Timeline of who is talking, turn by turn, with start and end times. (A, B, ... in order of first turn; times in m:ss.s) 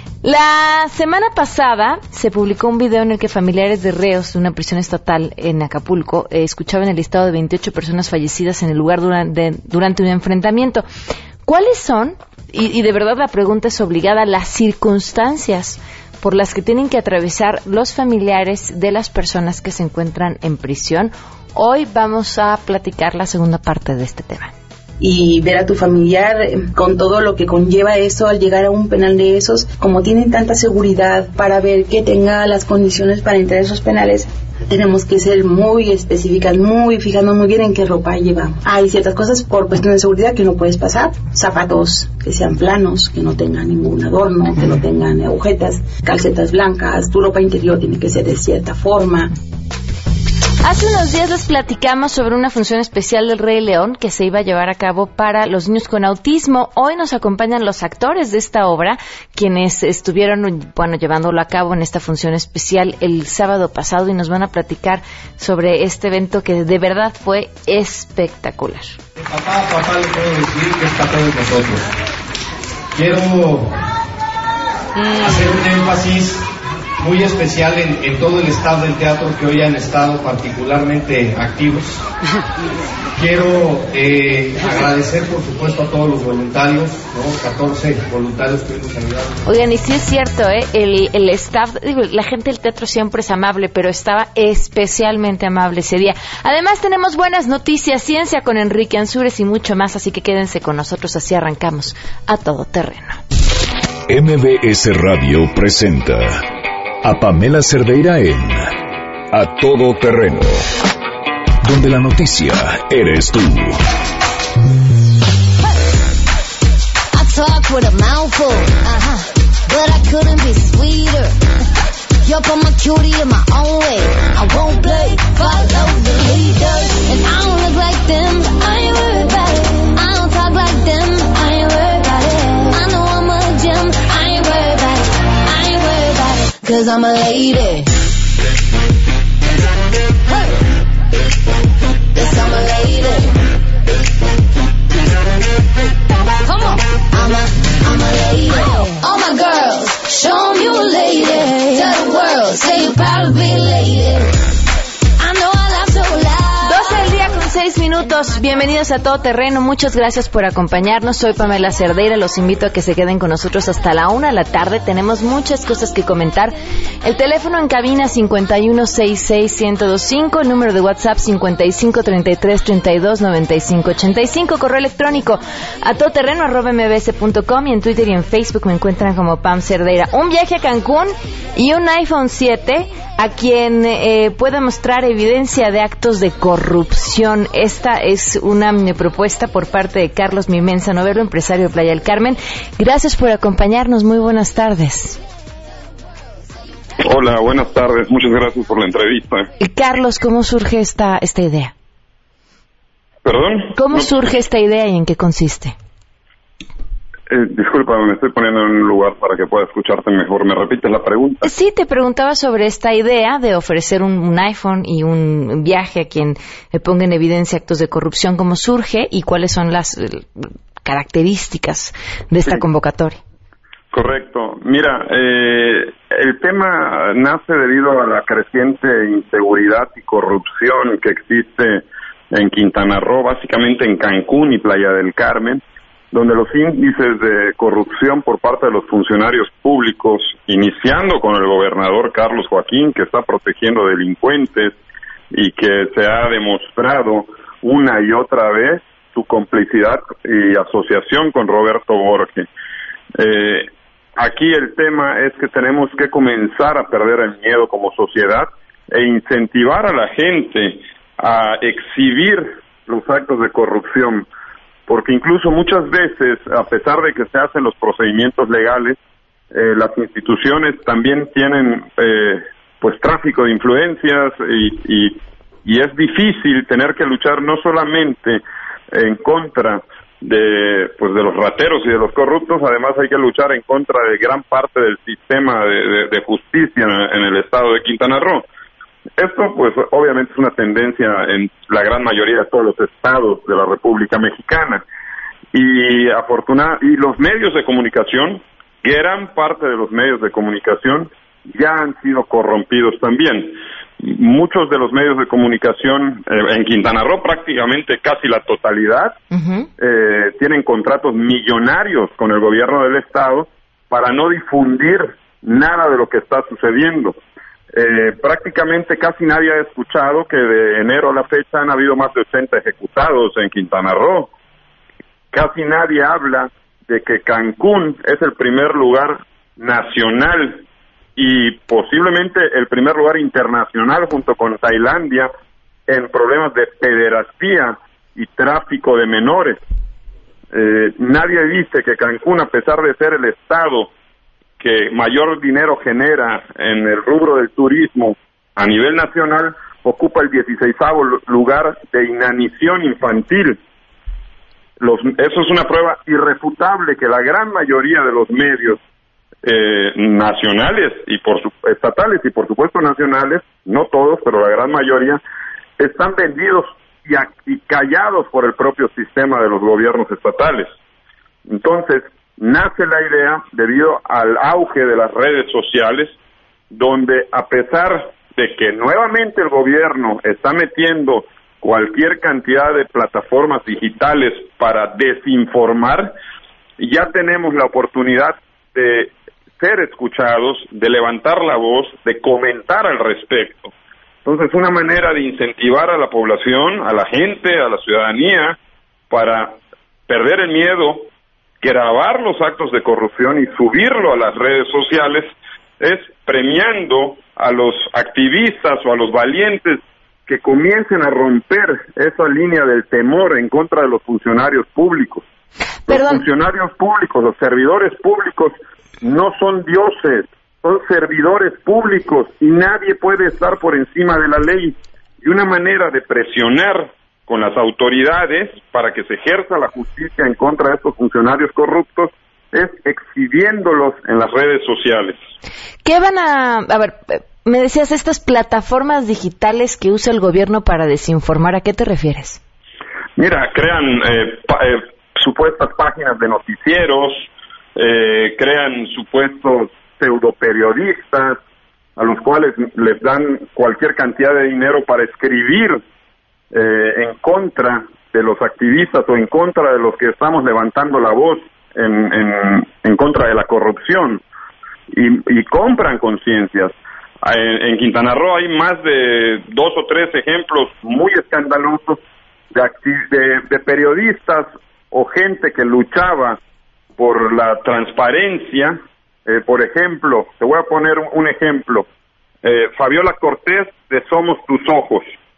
0:00.2-0:10.8 A
0:11.4-0:24.5 A
0:25.0-0:49.4 B
0:50.6-1:08.9 A
1:09.2-1:11.8 C
1:12.9-1:13.7 C
1:15.2-1:16.4 C
1:17.0-1:22.0 C
1:23.2-1:29.4 C
1:29.4-1:43.2 A
1:44.1-1:46.5 D
1:47.0-1:48.8 D
1:49.3-1:50.7 D
1:51.6-1:53.9 D
1:57.1-2:01.4 E
2:02.2-2:18.0 E
2:22.1-2:23.5 E
2:26.4-2:34.4 E
2:35.2-2:37.0 E
2:36.6-3:15.2 A
3:17.0-3:19.5 F
3:19.6-3:21.7 A
3:23.2-3:24.1 F
3:23.7-3:25.7 A
3:27.3-3:31.4 F
3:31.4-3:43.2 A
3:43.9-4:04.8 F
4:05.3-4:12.5 F
4:13.2-4:24.2 F
4:24.9-4:29.0 F
4:29.5-4:48.4 F
4:49.2-4:54.8 F
4:55.5-5:09.2 F
5:09.3-5:09.7 A
5:09.8-5:17.2 F
5:17.7-5:24.3 F
5:25.3-5:30.6 F
5:31.2-5:35.3 F
5:35.9-5:39.6 F
5:40.5-5:43.9 F
5:44.6-5:53.6 F
5:54.8-5:58.8 F
5:59.4-6:05.2 F
6:05.8-6:10.7 F
6:11.5-6:16.1 F
6:16.7-6:26.1 F
6:26.8-6:33.7 F
6:34.2-6:38.6 F
6:39.1-6:39.6 F
6:40.1-6:41.1 F
6:41.6-6:55.2 F
6:55.9-6:56.2 A
6:55.9-7:15.2 F
7:15.8-7:22.4 A
7:23.2-7:31.4 F
7:32.0-7:35.8 F
7:36.5-7:44.2 F
7:44.9-7:52.0 F
7:52.5-7:56.4 F
7:57.0-8:01.8 F
8:02.4-8:05.0 F